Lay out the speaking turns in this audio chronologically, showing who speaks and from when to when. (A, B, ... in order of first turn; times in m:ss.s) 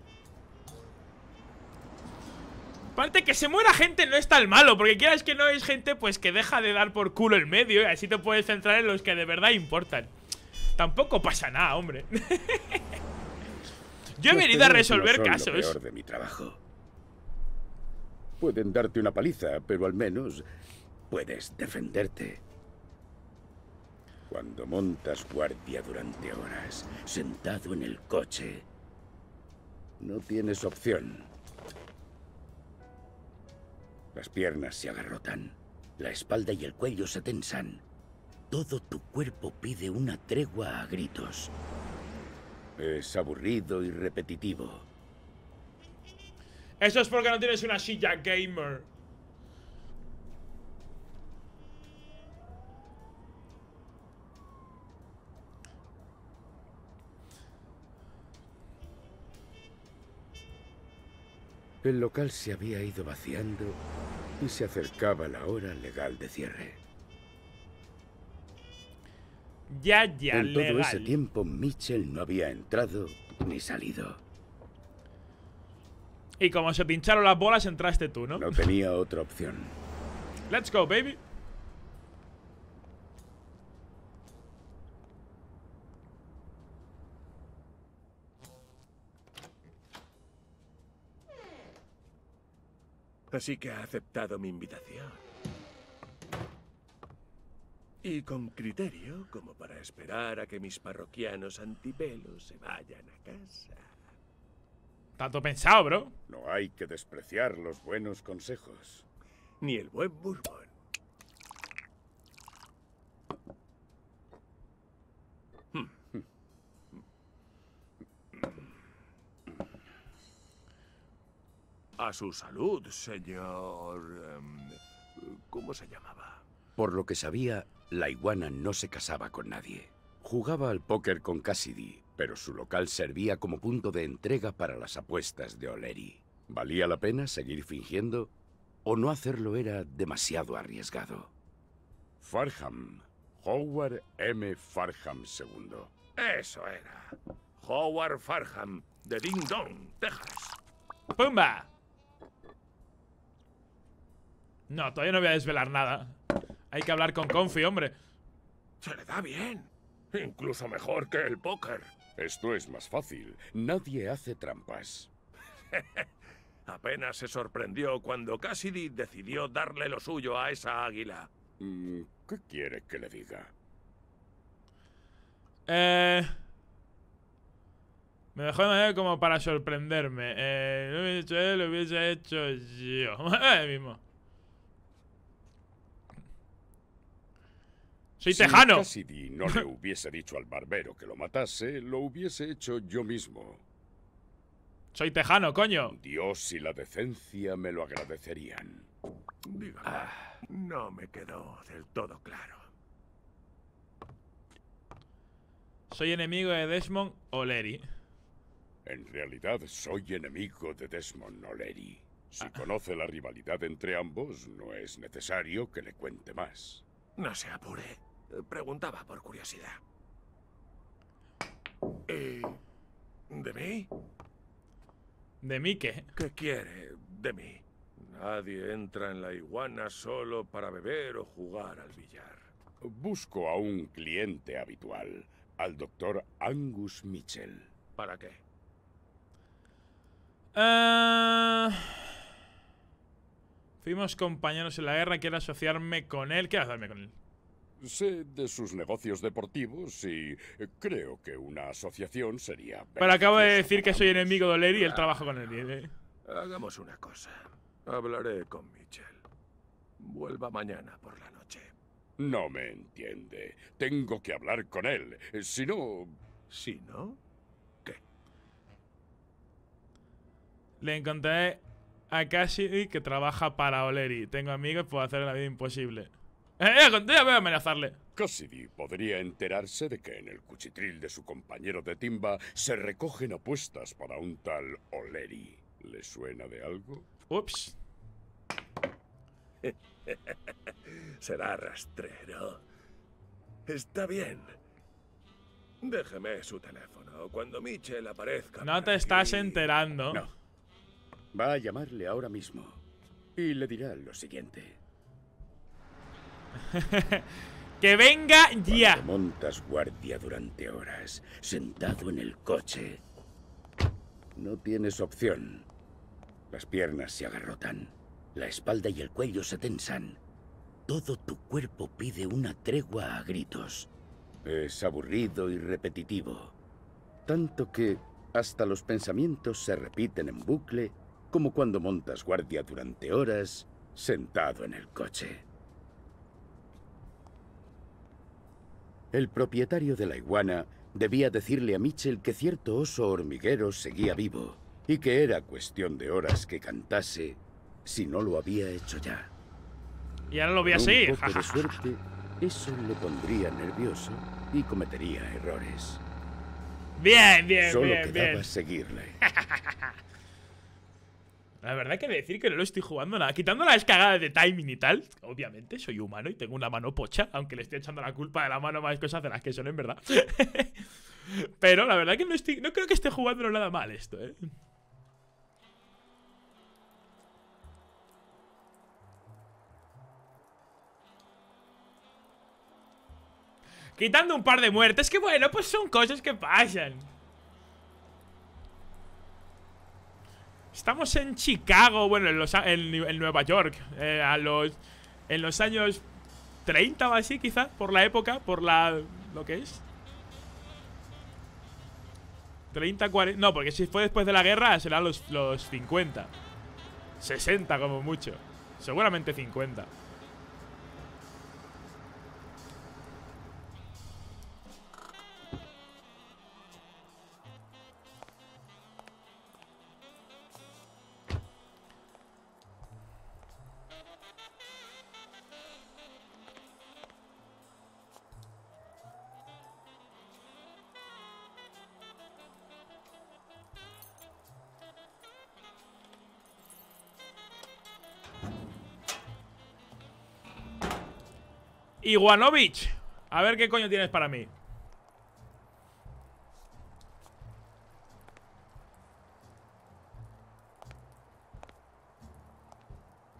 0:03.0-0:10.1 A
0:10.8-0:12.8 A
0:14.2-0:15.8 A
0:14.2-0:16.6 B
0:18.4-0:20.4 B
0:21.1-0:22.4 B
0:24.3-0:28.6 B
0:30.0-0:31.3 B
0:34.1-0:37.8 B
0:38.5-0:41.5 B
0:42.8-0:44.9 B
0:46.8-0:48.9 A
1:01.8-1:03.8 B
1:04.4-1:06.8 B
1:09.7-1:11.1 A
1:10.3-1:14.2 B
1:16.4-1:18.6 A
1:18.3-1:19.8 B
1:20.5-1:21.2 A
1:33.3-1:35.2 C
1:38.0-1:43.8 C
1:45.2-1:46.1 A
1:46.3-1:49.0 B
1:49.6-1:50.7 C
2:02.0-2:06.4 C
2:06.8-2:18.3 B
2:18.8-2:21.3 B
2:22.2-2:25.9 B
2:26.2-2:30.6 C
2:31.1-2:31.7 A
2:34.7-2:36.2 A
2:36.7-2:37.9 A
2:38.8-2:41.9 C
2:42.2-2:45.1 B
2:45.7-2:46.1 C
2:46.7-2:51.3 C
2:51.6-2:53.5 B
2:55.7-2:56.4 A
2:58.3-3:04.0 A
3:08.2-3:08.9 A
3:08.3-3:13.6 B
3:14.9-3:15.9 A
3:15.9-3:18.9 B
3:19.4-3:22.6 C
3:19.8-3:20.1 B
3:25.9-3:27.8 A
3:28.8-3:36.8 B
3:37.2-3:39.8 C
3:42.1-3:42.6 C
3:43.3-3:43.9 C
3:45.4-3:46.1 A
3:46.2-3:52.5 C
3:52.8-3:57.7 B
3:58.0-3:58.4 C
4:00.5-4:02.0 A
4:03.8-4:07.1 A
4:07.8-4:14.4 B
4:13.0-4:15.9 A
4:14.7-4:15.2 C
4:16.3-4:19.2 C
4:20.0-4:21.7 C
4:22.2-4:26.2 B
4:26.5-4:27.2 C
4:30.8-4:38.0 A
4:38.2-4:47.1 B
4:47.3-4:47.8 A
4:49.6-4:52.6 C
4:53.7-4:54.6 C
4:55.8-4:59.7 C
4:58.6-5:00.2 A
5:01.3-5:02.8 B
5:03.4-5:04.8 B
5:06.7-5:07.2 A
5:07.8-5:09.0 A
5:08.7-5:13.0 B
5:14.3-5:15.7 B
5:16.5-5:20.2 B
5:20.9-5:23.9 B
5:24.4-5:26.5 B
5:27.2-5:35.4 B
5:39.1-5:49.3 B
5:50.3-5:51.8 A
5:50.6-5:56.0 B
5:57.0-5:58.5 A
5:57.6-5:59.2 B
5:59.2-5:59.8 A
6:01.6-6:10.8 A
6:11.3-6:14.5 A
6:24.0-6:27.0 A
6:30.7-6:34.8 A
6:35.3-6:36.0 A
6:36.6-6:39.8 A
6:42.7-6:46.3 A
6:47.2-6:49.9 A
7:22.0-7:24.5 A